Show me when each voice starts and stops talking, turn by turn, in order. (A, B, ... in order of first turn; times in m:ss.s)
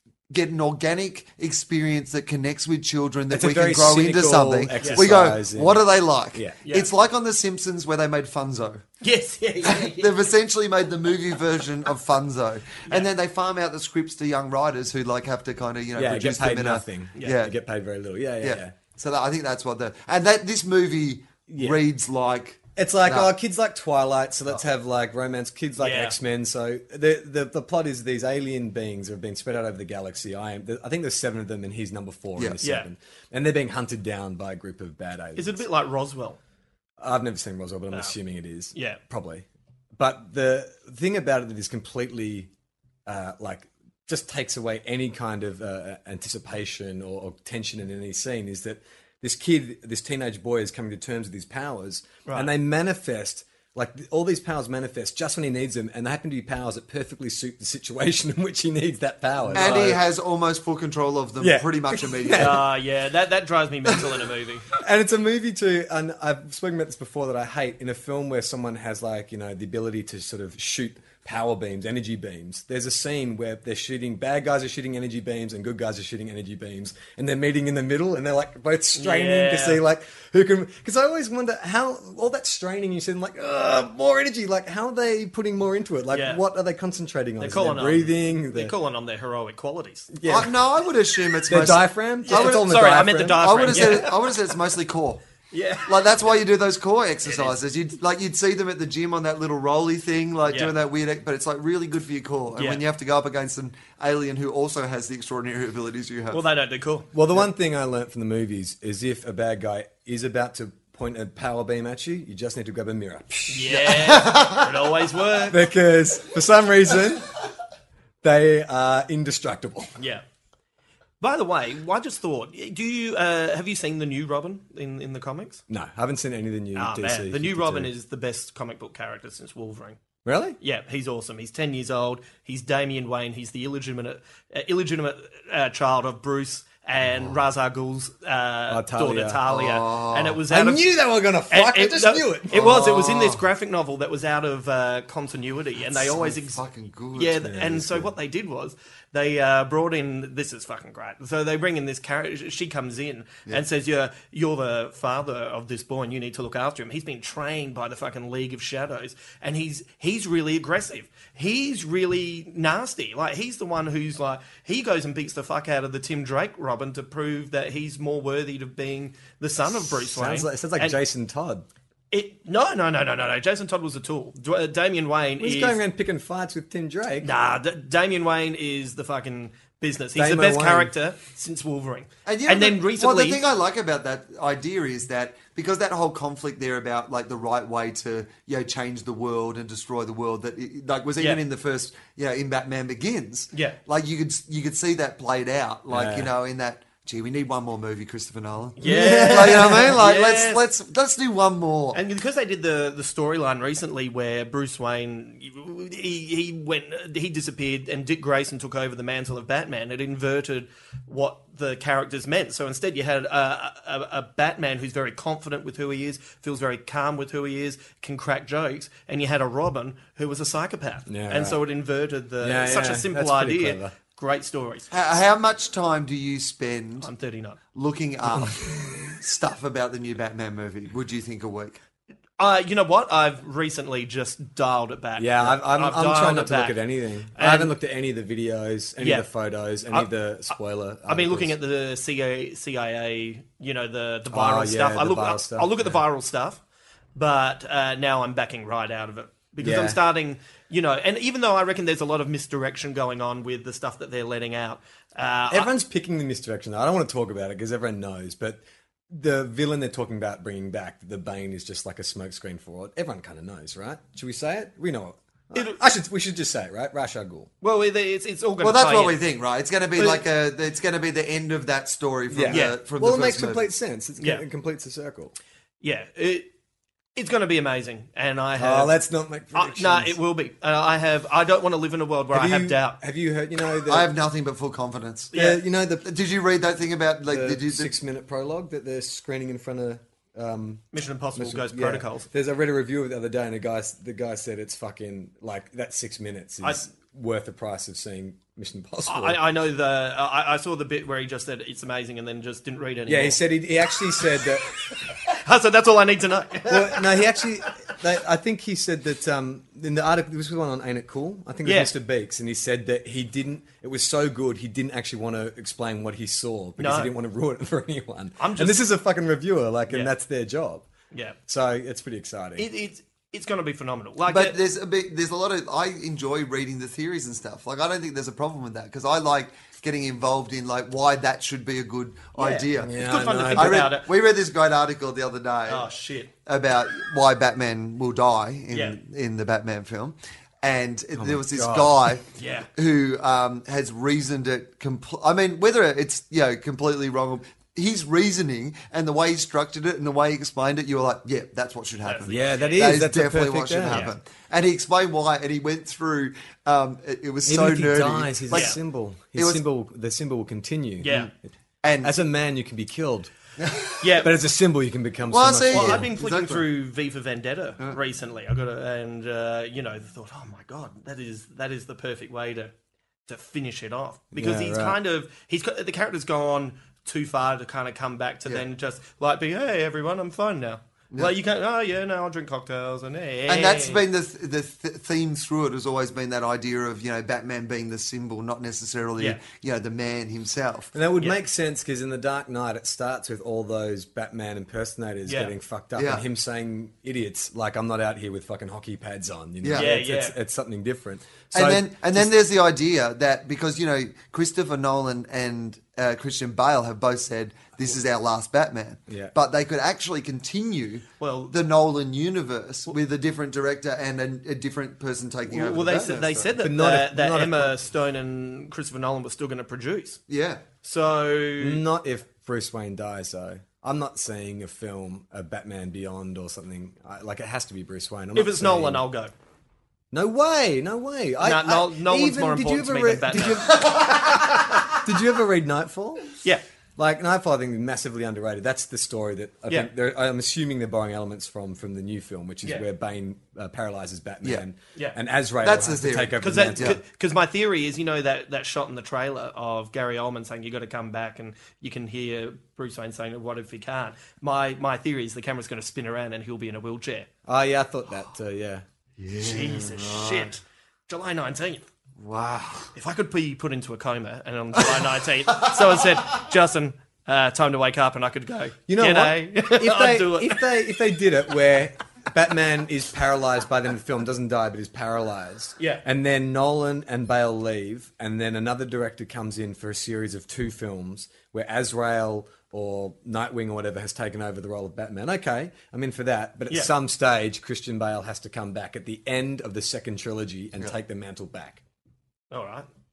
0:00.3-0:08.8 A
0:03.3-0:06.6 B
0:04.8-0:05.1 C
0:06.6-0:06.9 C
0:09.0-0:10.2 C
0:09.6-0:17.5 A
0:16.0-0:18.7 B
0:17.2-0:17.4 C
0:18.4-0:23.3 A
0:21.5-0:21.8 B
0:22.8-0:35.6 B
0:25.8-0:26.2 C
0:32.6-0:32.9 C
0:35.4-0:36.4 C
0:37.0-0:39.4 B
0:38.7-0:39.0 C
0:40.0-0:42.5 B
0:43.1-1:00.0 B
0:59.5-0:59.9 C
0:59.5-1:02.7 A
1:01.4-1:02.7 B
1:02.4-1:04.7 C
1:04.8-1:28.8 B
1:19.0-1:19.8 C
1:26.1-1:26.4 C
1:27.4-1:30.1 C
1:30.1-1:30.5 B
1:30.2-1:35.2 A
1:31.5-1:34.1 B
1:32.2-1:34.4 C
1:35.5-1:36.3 C
1:35.8-1:46.4 A
1:37.2-1:37.6 C
1:40.5-1:40.8 C
1:42.5-1:42.8 C
1:46.3-1:47.1 C
1:47.1-1:53.8 B
1:53.5-1:55.6 C
1:53.7-1:54.8 A
1:55.5-1:57.3 B
1:58.2-2:00.0 B
2:00.0-2:00.2 C
2:01.2-2:05.6 C
2:05.7-2:07.9 B
2:06.8-2:10.0 C
2:10.2-2:10.6 B
2:10.6-2:20.9 C
2:18.7-2:19.4 B
2:19.5-2:20.4 A
2:20.5-2:22.6 B
2:21.5-2:26.6 C
2:22.5-2:23.5 A
2:25.9-2:27.4 A
2:27.1-2:51.0 C
2:27.3-2:28.1 B
2:49.8-2:51.7 B
2:52.1-2:55.8 C
2:55.4-2:57.3 B
2:57.2-3:03.4 C
3:00.2-3:00.9 B
3:02.2-3:22.0 A
3:13.5-3:13.8 C
3:15.9-3:16.3 B
3:18.8-3:20.6 C
3:18.8-3:19.9 B
3:21.9-3:44.9 C
3:41.1-3:41.6 B
3:42.4-3:44.0 B
3:44.9-3:47.1 A
3:47.0-3:47.6 C
3:47.7-3:51.8 A
3:48.4-3:49.1 B
3:52.4-3:56.8 C
3:55.2-4:01.6 B
3:57.4-3:57.8 C
3:59.0-3:59.3 C
4:01.1-4:06.6 C
4:04.3-4:06.0 B
4:07.2-4:15.7 C
4:09.6-4:10.0 B
4:15.5-4:18.6 B
4:19.1-4:27.5 B
4:25.6-4:25.8 C
4:27.6-4:29.2 C
4:28.6-4:33.6 A
4:32.3-4:35.3 B
4:32.5-4:32.8 C
4:35.8-4:36.5 C
4:37.2-4:39.0 C
4:38.6-4:40.2 B
4:39.5-4:43.0 C
4:42.3-4:44.1 B
4:43.9-4:45.4 A
4:45.3-4:46.1 B
4:45.3-4:45.6 C
4:46.0-4:47.9 A
4:47.3-4:50.8 B
4:50.9-4:52.3 C
4:51.4-4:59.4 B
4:56.6-4:56.9 C
4:59.1-5:03.4 C
5:03.1-5:04.8 B
5:05.3-5:07.7 C
5:06.6-5:20.9 B
5:11.6-5:11.9 C
5:16.8-5:17.1 C
5:18.4-5:18.8 C
5:21.1-5:21.4 C
5:21.5-5:22.7 B
5:22.6-5:24.6 C
5:24.3-5:33.0 A
5:32.4-5:34.1 C
5:32.8-5:33.9 B
5:33.5-5:35.9 A
5:35.7-5:36.3 C
5:36.5-5:58.8 A
5:38.7-5:39.0 C
5:41.2-5:42.0 B
5:42.4-5:42.7 C
5:52.0-5:52.9 C
5:52.3-5:54.1 B
5:53.9-5:54.2 C
5:57.4-6:01.2 B
5:58.5-5:58.8 C
5:59.3-5:59.6 A
6:01.0-6:01.3 C
6:01.8-6:02.1 A
6:02.0-6:03.3 B
6:03.6-6:04.1 A
6:04.0-6:04.4 C
6:04.2-6:06.1 B
6:05.3-6:06.7 A
6:05.7-6:12.7 C
6:13.3-6:24.0 C
6:14.3-6:15.0 B
6:23.5-6:30.9 A
6:30.9-6:42.3 B
6:35.3-6:35.5 C
6:36.0-6:36.2 A
6:39.6-6:39.9 A
6:39.7-6:40.4 C
6:41.5-6:56.5 A
6:49.1-6:49.3 B
6:51.2-6:51.6 C
6:55.5-7:00.2 C
6:56.6-6:57.8 B
7:00.3-7:00.6 A
7:00.8-7:01.8 C
7:01.6-7:09.0 B
7:08.4-7:09.3 C
7:10.1-7:16.3 B
7:11.4-7:13.9 C
7:17.0-7:27.0 B
7:25.6-7:27.0 A
7:26.4-7:37.3 C
7:37.5-7:38.8 B
7:39.2-7:40.5 A
7:39.4-7:41.8 C
7:42.2-7:42.9 A
7:43.0-7:50.8 C
7:48.9-8:11.8 B
7:55.8-7:56.0 C
8:12.5-8:12.9 C